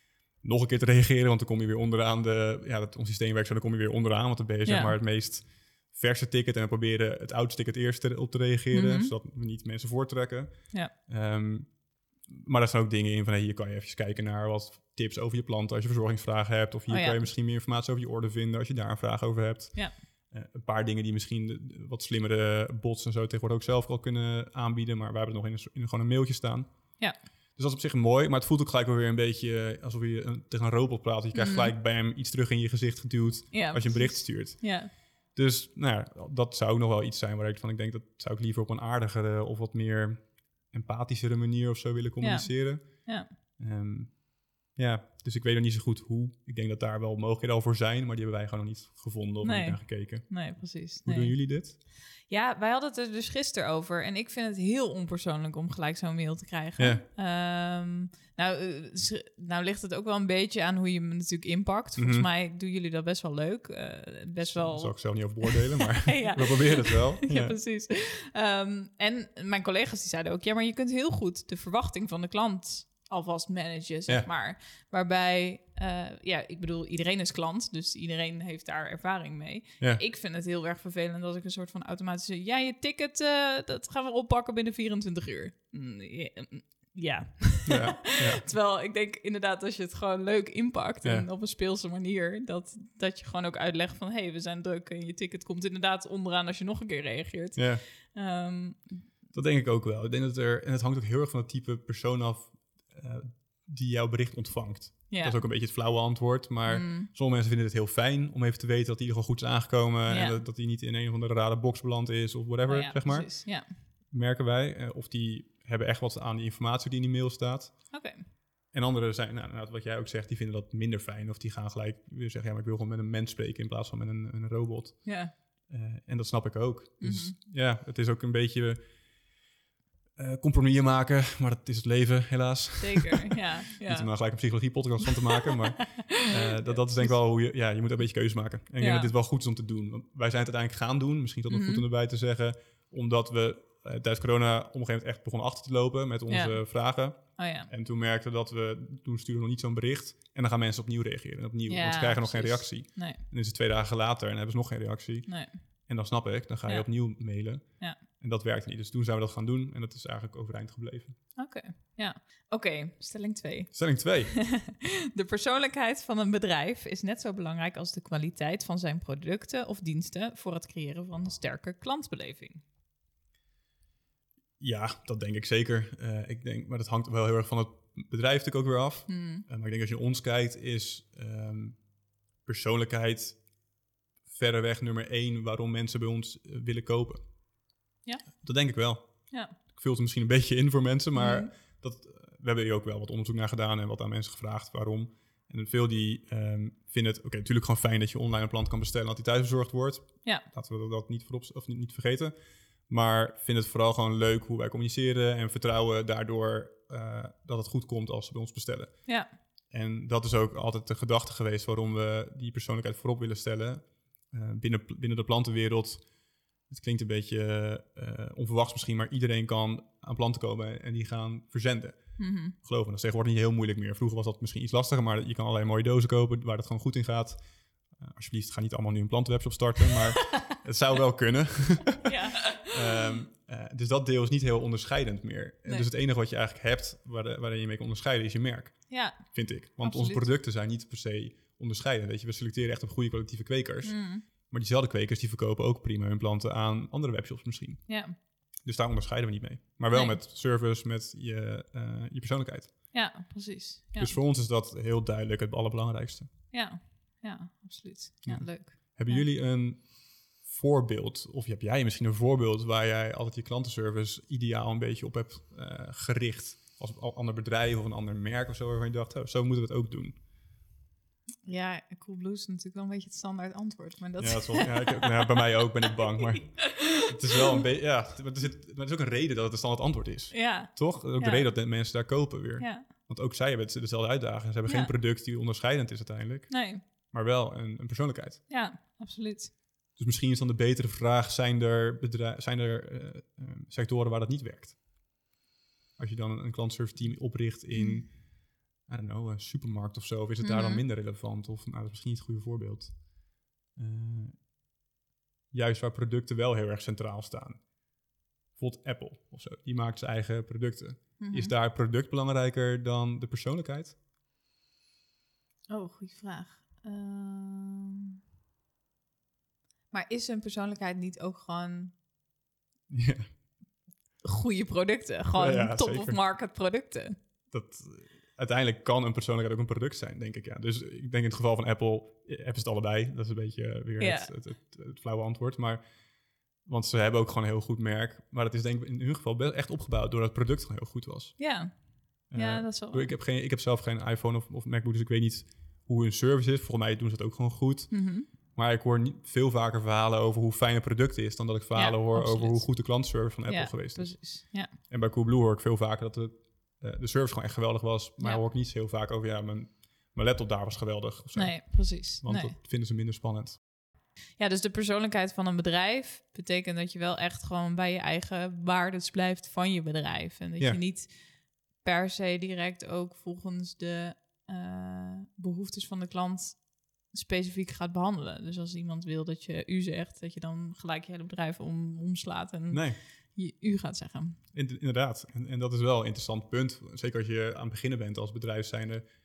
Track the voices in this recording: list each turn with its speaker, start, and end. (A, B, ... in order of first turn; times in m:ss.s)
0:00.4-0:27.0 A
0:04.6-0:05.0 B
0:08.7-0:09.1 B
0:16.9-0:17.2 B
0:27.6-0:51.8 A
0:31.3-0:31.7 B
0:33.5-0:34.9 B
0:42.2-0:43.3 B
0:49.4-1:39.0 B
0:56.8-0:57.0 A
1:02.0-1:02.3 A
1:04.4-1:07.6 A
1:27.6-1:28.4 A
1:31.0-1:31.3 A
1:37.6-1:37.8 A
1:39.3-1:58.0 A
1:45.1-1:45.4 B
1:46.6-1:47.1 B
1:50.1-1:50.4 B
1:52.7-1:53.7 B
1:57.9-1:58.2 B
1:58.7-2:09.0 A
2:05.0-2:05.3 B
2:07.0-2:07.3 B
2:10.2-2:41.2 A
2:12.8-2:14.1 B
2:15.8-2:17.2 B
2:18.8-2:19.1 B
2:21.5-2:21.8 B
2:26.3-2:27.7 B
2:31.7-2:33.2 B
2:35.3-2:35.6 B
2:41.4-2:52.6 B
2:43.7-2:44.4 A
2:54.6-3:01.8 A
2:59.1-2:59.4 B
3:02.4-3:03.4 A
3:04.2-3:07.2 A
3:08.4-3:22.3 A
3:11.1-3:11.5 B
3:22.9-3:36.1 A
3:36.7-4:08.0 A
3:42.2-3:42.5 B
3:52.0-3:53.2 B
3:58.9-4:00.3 B
4:03.8-4:04.2 B
4:07.9-4:08.1 B
4:08.6-4:12.8 A
4:09.9-4:10.2 B
4:12.9-4:14.2 B
4:14.0-4:16.3 A
4:16.5-4:19.3 B
4:18.2-4:30.2 A
4:31.4-4:35.4 B
4:34.2-4:48.5 A
4:36.0-4:37.6 B
4:40.3-4:41.5 B
4:42.6-4:42.9 B
4:44.6-4:44.9 B
4:46.5-4:46.8 B
4:48.5-4:49.5 B
4:49.9-4:54.8 A
4:56.0-5:03.1 A
4:57.7-4:58.1 B
5:00.4-5:00.8 B
5:03.7-5:04.5 A
5:05.5-5:07.6 A
5:08.5-5:14.0 A
5:11.2-5:11.5 B
5:15.7-5:18.1 B
5:19.9-5:21.9 B
5:22.9-5:23.3 A
5:24.2-5:27.2 B
5:25.3-5:26.2 A
5:27.5-5:35.8 A
5:34.0-5:34.3 B
5:36.6-5:41.5 A
5:41.4-5:43.1 B
5:42.3-6:03.6 A
5:47.9-5:48.3 B
5:51.8-5:54.7 B
6:01.3-6:02.6 B
6:04.4-6:24.4 B
6:22.7-6:23.0 A
6:24.5-6:29.1 A